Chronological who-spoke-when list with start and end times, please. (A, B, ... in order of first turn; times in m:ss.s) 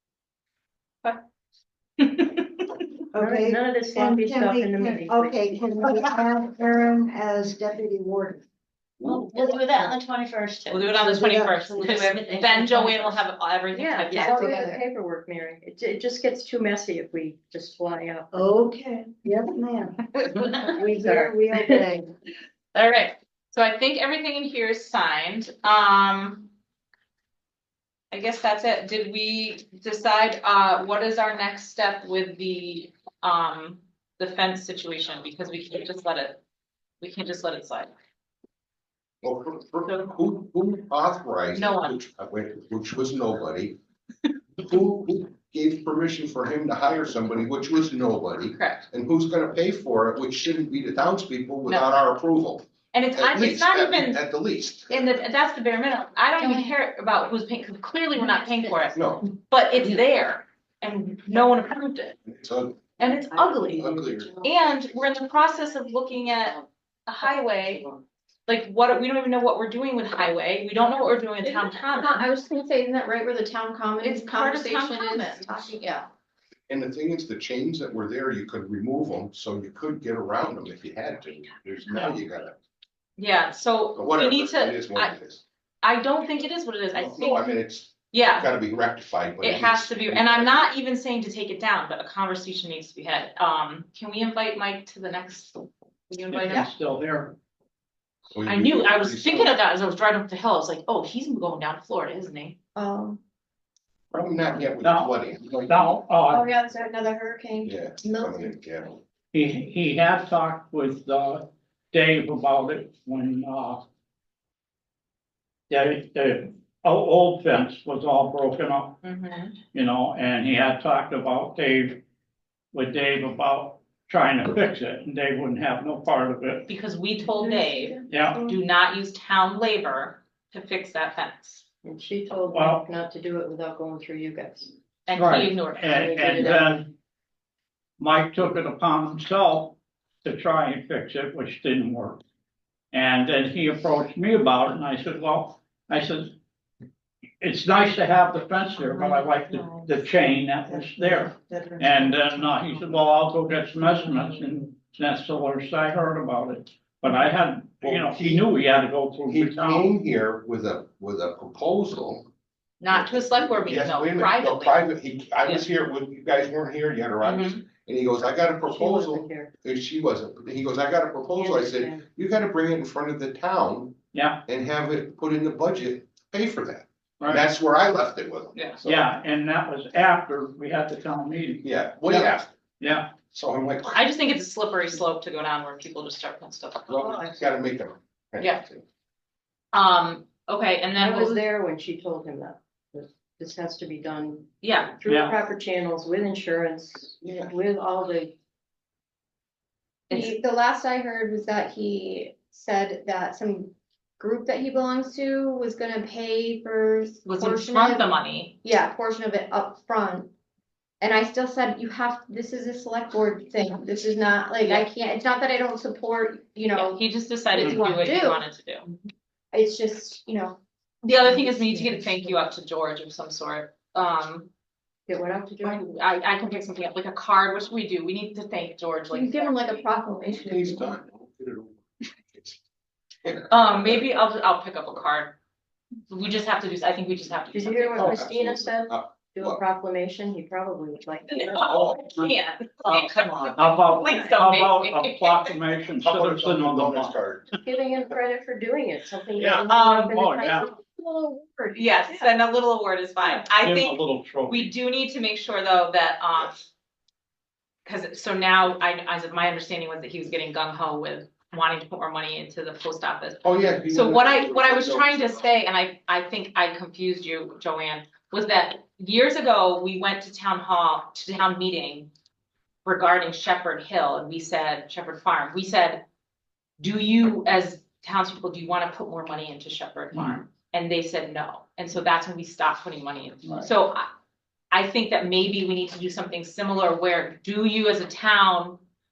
0:02.0-0:02.6 A
0:03.1-0:08.4 B
0:03.2-0:05.3 C
0:09.0-0:09.6 D
0:09.0-0:10.9 E
0:10.7-0:14.5 A
0:11.0-0:11.8 B
0:11.7-0:13.2 E
0:13.7-0:18.3 C
0:14.1-0:14.8 B
0:14.2-0:14.8 F
0:14.3-0:14.5 E
0:18.3-0:22.1 B
0:22.7-0:26.5 A
0:28.1-0:36.4 A
0:37.0-0:37.9 A
0:39.2-0:43.8 D
0:41.5-0:42.0 A
0:44.6-0:55.1 D
0:48.5-0:48.8 A
0:51.7-0:52.0 A
0:52.9-0:54.2 A
0:54.9-1:02.2 A
0:58.9-0:59.2 D
1:02.3-1:03.1 D
1:03.0-1:07.8 A
1:03.5-1:04.2 F
1:03.7-1:04.3 D
1:08.5-1:12.2 A
1:11.4-1:16.1 F
1:14.0-1:15.6 A
1:16.7-1:22.6 D
1:23.2-1:25.1 A
1:24.0-1:25.4 D
1:25.8-1:27.6 A
1:26.9-1:30.7 D
1:28.1-1:28.5 A
1:29.4-1:36.7 A
1:36.3-1:37.3 G
1:38.3-1:39.6 D
1:38.4-1:42.5 A
1:42.7-1:43.2 F
1:44.1-1:45.7 D
1:44.8-1:45.1 G
1:45.6-1:46.4 G
1:46.3-1:48.6 F
1:47.6-1:49.0 D
1:49.3-1:53.8 G
1:55.7-1:59.0 G
1:59.0-1:59.5 A
1:59.7-2:02.0 G
2:02.7-2:06.6 G
2:06.6-2:11.6 A
2:07.3-2:08.6 F
2:08.1-2:08.4 G
2:11.8-2:14.7 C
2:12.5-2:12.8 G
2:15.0-2:16.0 A
2:15.1-2:16.8 G
2:16.0-2:16.8 C
2:18.0-2:22.2 G
2:22.9-2:26.3 G
2:27.4-2:39.9 G
2:29.1-2:29.6 F
2:30.7-2:31.2 B
2:32.0-2:32.5 B
2:37.8-2:38.5 D
2:39.3-2:42.3 D
2:42.8-2:44.8 A
2:42.9-2:59.0 D
2:47.2-2:47.6 A
2:48.7-2:49.5 C
2:51.3-2:52.0 C
2:54.1-2:54.4 G
2:58.5-2:58.8 A
2:58.8-3:03.1 G
3:01.6-3:02.6 D
3:03.3-3:04.0 D
3:03.9-3:07.0 A
3:06.9-3:08.8 D
3:07.1-3:07.4 C
3:09.7-3:11.4 A
3:11.0-3:18.3 C
3:14.6-3:15.0 A
3:15.0-3:15.4 G
3:17.2-3:17.5 D
3:20.1-3:20.4 A
3:20.1-3:28.1 F
3:27.2-3:28.5 A
3:28.6-3:30.3 F
3:31.0-3:38.4 F
3:34.6-3:34.9 A
3:36.7-3:38.8 A
3:39.5-3:40.6 F
3:41.0-3:44.5 A
3:41.2-3:42.0 F
3:41.7-3:42.3 C
3:45.1-3:45.8 C
3:45.6-3:49.8 A
3:49.1-3:50.9 F
3:50.3-3:52.6 D
3:53.2-3:54.1 D
3:53.5-3:55.4 A
3:56.1-3:58.2 A
3:57.5-4:01.6 C
3:58.0-3:59.6 D
4:01.3-4:05.5 A
4:01.7-4:02.0 D
4:02.0-4:07.2 G
4:06.0-4:07.5 D
4:07.6-4:10.6 C
4:09.4-4:10.7 G
4:09.7-4:10.2 A
4:11.7-4:16.7 A
4:13.6-4:14.7 G
4:17.8-4:32.1 A
4:23.4-4:25.4 D
4:32.8-4:36.0 A
4:36.8-4:44.1 A
4:40.1-4:40.4 G
4:44.7-4:48.8 A